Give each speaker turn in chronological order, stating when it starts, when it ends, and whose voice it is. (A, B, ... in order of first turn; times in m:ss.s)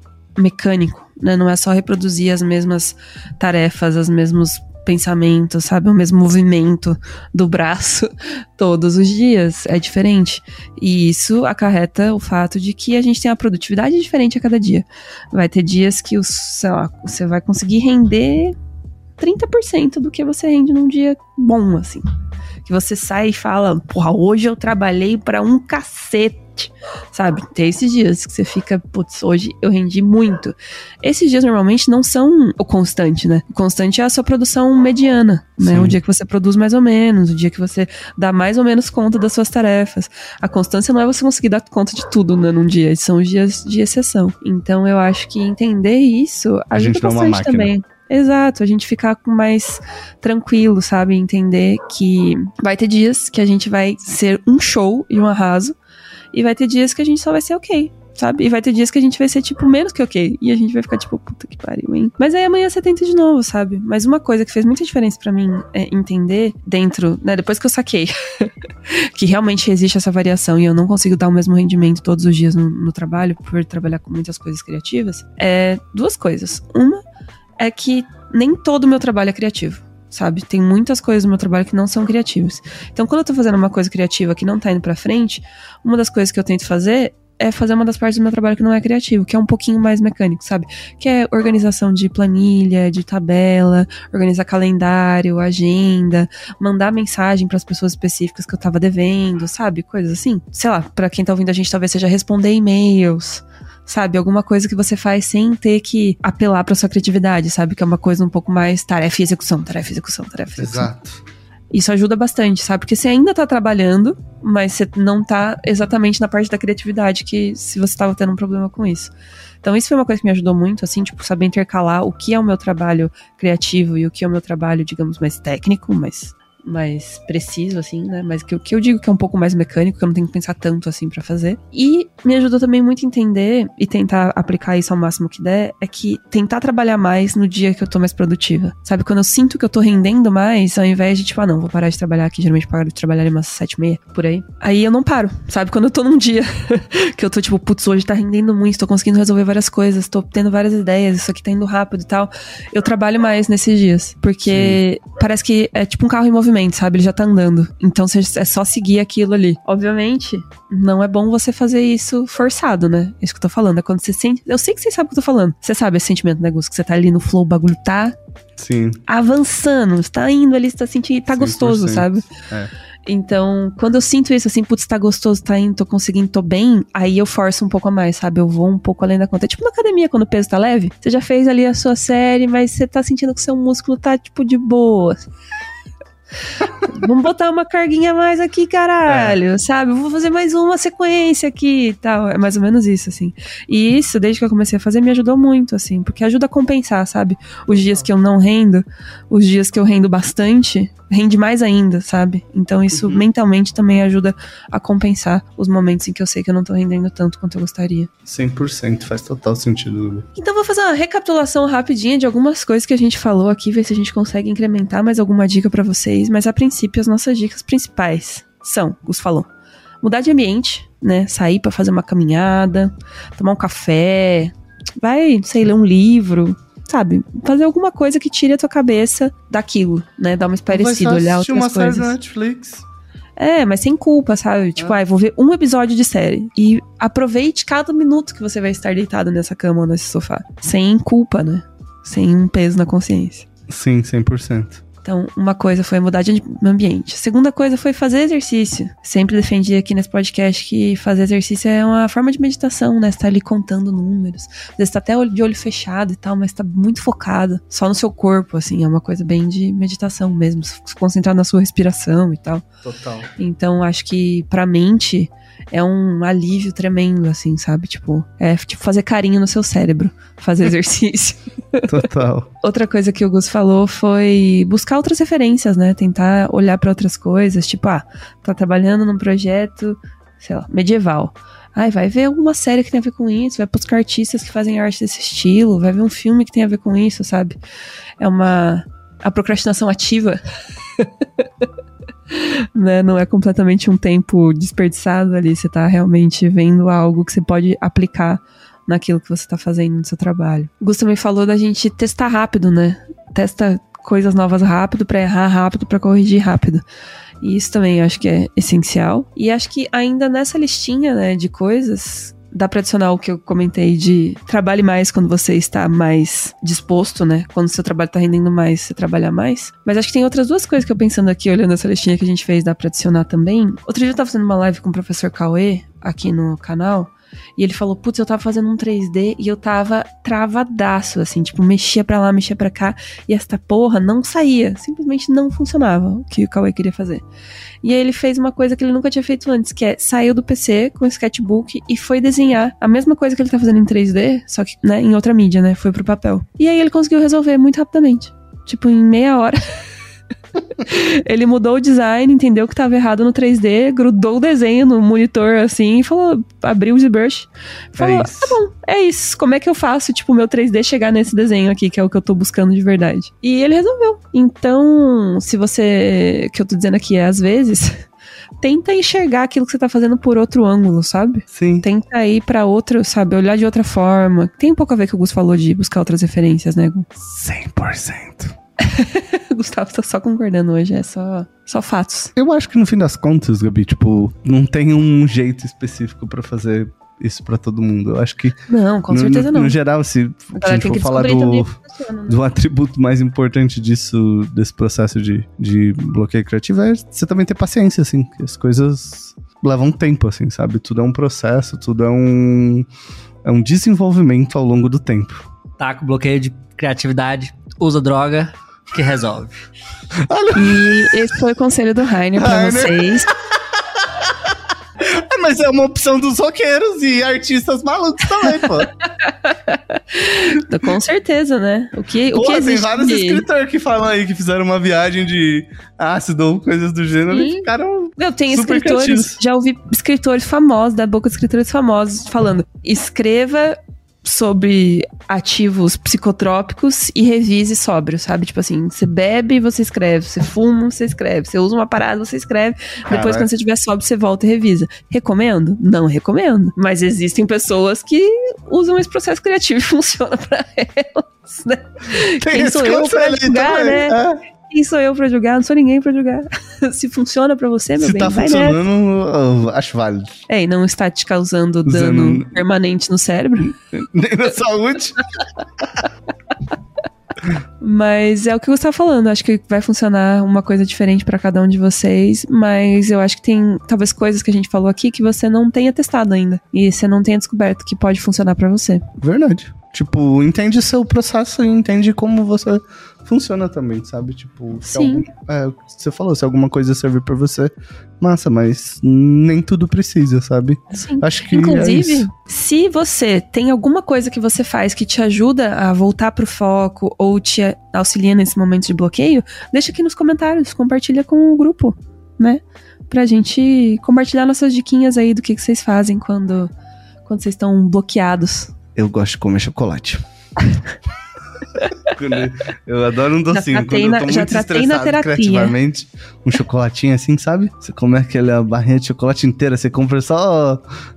0:00.4-0:18.6 A
0:19.2-0:22.1 A
0:22.6-0:55.7 A
0:35.6-0:36.0 B
0:46.7-0:47.7 B
0:56.3-1:17.0 A
1:17.6-1:50.9 A
1:50.6-1:51.2 B
1:51.7-1:59.1 A
1:59.6-2:48.2 A
2:34.5-2:34.8 B
2:48.6-2:49.0 B
2:49.1-2:52.3 A
2:51.3-2:52.7 B
2:53.1-3:05.2 A
3:06.8-3:28.1 A
3:09.1-3:09.4 B
3:22.9-3:23.3 B
3:28.3-3:30.3 B
3:30.4-3:39.5 A
3:40.0-3:52.1 A
3:50.7-3:52.9 B
3:53.4-4:03.5 A
4:03.7-4:04.8 B
4:05.0-4:22.6 A
4:22.8-4:23.3 B
4:23.4-4:31.9 A
4:31.9-4:32.5 B
4:32.6-4:47.6 A
4:48.2-4:50.4 A
4:51.0-4:51.5 A
4:52.3-5:06.8 A
5:07.4-5:37.2 A
5:37.8-5:49.6 A
5:50.8-6:08.0 A
5:58.0-5:58.6 B
6:08.6-6:17.1 A
6:11.5-6:11.9 B
6:17.2-6:18.6 B
6:18.8-6:22.3 A
6:22.4-6:31.8 B
6:28.7-6:29.8 A
6:30.6-6:32.4 A
6:32.3-6:42.9 B
6:43.4-6:45.5 B
6:45.8-6:49.6 C
6:50.2-6:51.2 B
6:50.6-6:53.3 A
6:52.4-6:53.6 B
6:54.2-6:58.9 B
6:59.2-7:03.4 A
7:02.3-7:09.4 B
7:07.3-7:38.8 A
7:23.1-7:23.5 B
7:32.4-7:34.4 B
7:38.0-7:40.4 B
7:40.5-7:43.8 A
7:41.8-7:42.6 B
7:43.9-7:45.2 B
7:47.8-7:59.1 A
7:59.2-8:12.3 B
8:04.8-8:05.3 A
8:10.9-8:26.7 A
8:27.2-8:28.7 A
8:29.0-8:30.2 B
8:32.0-8:40.8 B
8:33.5-8:35.8 A